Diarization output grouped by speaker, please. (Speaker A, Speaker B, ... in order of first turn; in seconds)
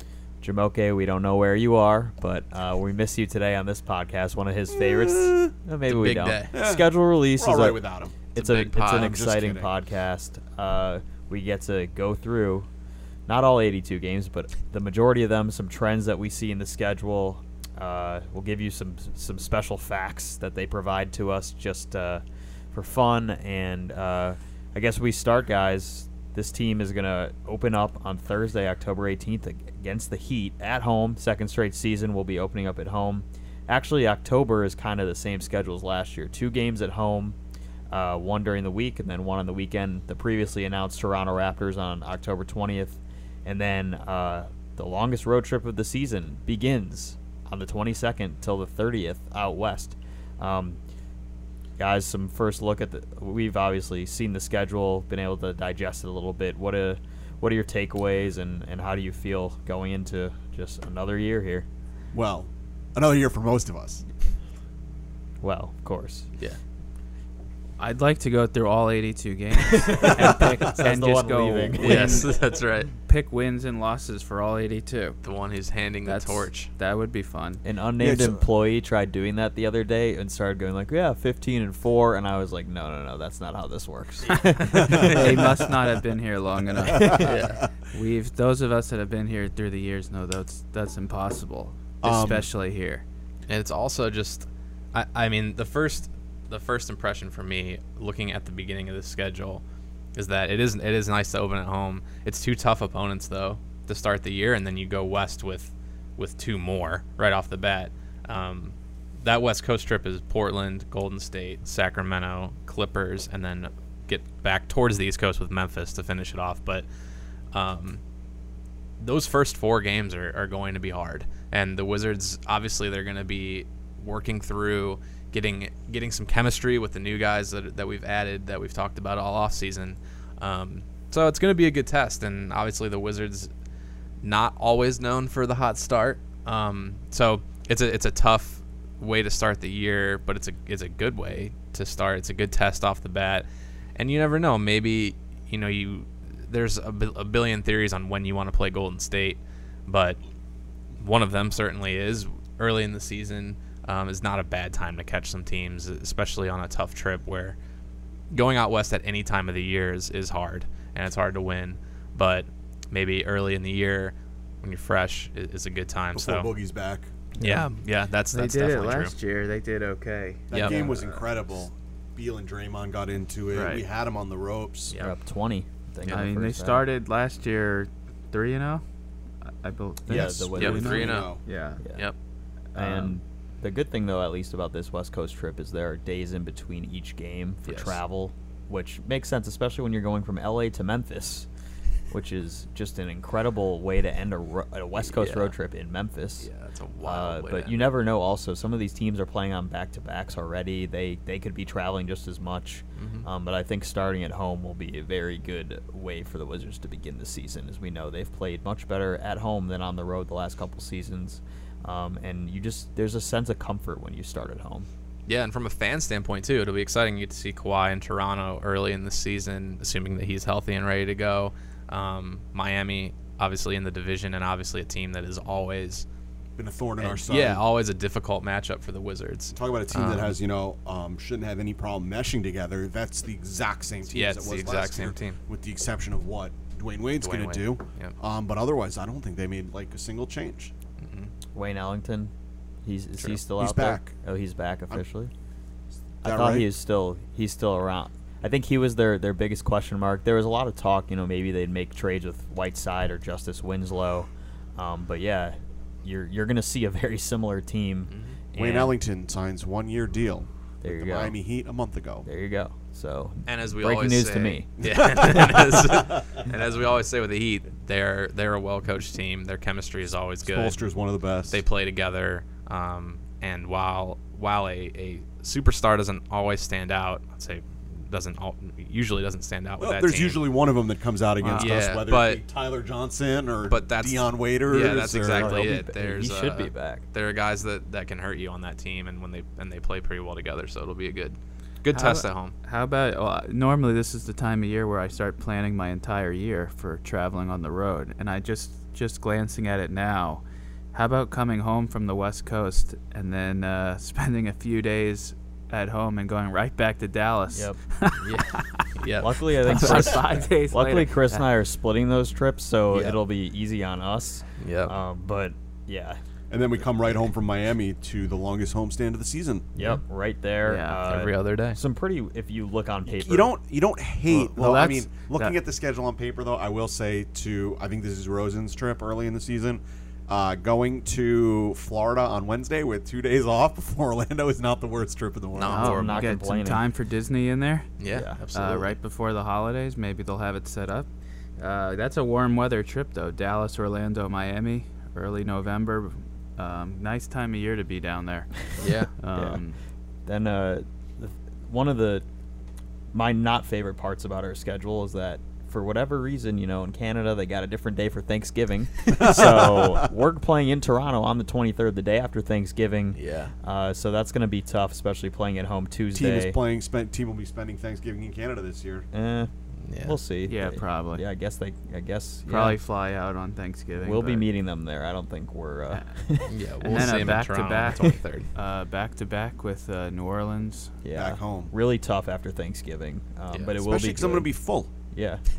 Speaker A: 0.4-12.7, 13.3-37.4, 37.9-50.8, 51.8-61.6, 65.4-66.3, 69.9-72.2, 77.6-85.4, 87.0-87.3, 167.4-167.7, 175.0-176.8, 180.1-181.0, 182.7-191.5, 192.1-196.5, 197.0-214.9, 241.5-242.3, 242.8-245.3, 246.2-258.9, 260.8-261.4, 262.2-265.5, 285.3-287.0, 307.5-307.8, 309.2-316.2, 319.8-323.5, 335.9-336.8, 338.1-338.4, 349.3-349.6, 350.2-352.2, 353.1-366.6, 369.1-372.8, 373.9-377.2, 381.0-384.5, 385.1-385.4
Speaker B: 4.7-5.5, 6.5-8.3, 8.8-9.7, 62.1-64.0, 78.0-78.4, 84.8-85.1, 92.0-92.4, 166.1-167.1, 170.5-174.9, 180.1-181.4, 226.6-227.6, 229.5-240.7, 243.6-244.2, 246.2-246.7, 258.5-262.2, 264.8-265.9, 270.4-271.6, 279.8-285.7, 316.5-319.7, 323.1-336.1, 359.1-360.1, 366.1-369.1, 381.1-381.7, 383.8-384.9
Speaker C: 5.8-6.6, 8.3-9.2, 71.8-72.9, 75.2-76.7, 87.2-87.6, 93.5-99.6, 100.1-116.8, 117.5-118.0, 119.0-133.5, 134.2-150.2, 151.0-157.6, 158.3-166.5, 167.4-169.1, 170.5-170.8, 174.9-175.1, 180.5-181.3, 187.6-188.0, 195.0-195.5, 196.4-197.9, 203.0-203.2, 215.3-226.0, 227.0-230.4, 234.1-235.4, 237.2-238.1, 241.0-241.3, 243.2-243.4, 258.1-258.4, 263.4-270.8, 271.5-280.5, 281.5-282.4, 283.6-292.5, 308.2-310.1, 312.9-313.2, 314.6-314.9, 321.0-321.8, 335.5-336.2, 338.0-339.0, 348.8-349.1, 363.1-363.5, 369.9-370.2, 376.5-378.5, 383.5-383.8
Speaker D: 67.8-75.2, 76.0-77.6, 84.9-93.0, 168.3-171.3, 173.5-173.8, 176.1-178.8, 179.4-181.8, 182.7-183.1, 281.4-281.8, 291.9-308.8, 309.6-311.4, 320.6-321.0, 324.3-325.6, 335.7-337.9, 338.5-349.8, 370.4-371.2, 372.4-374.5, 376.8-380.9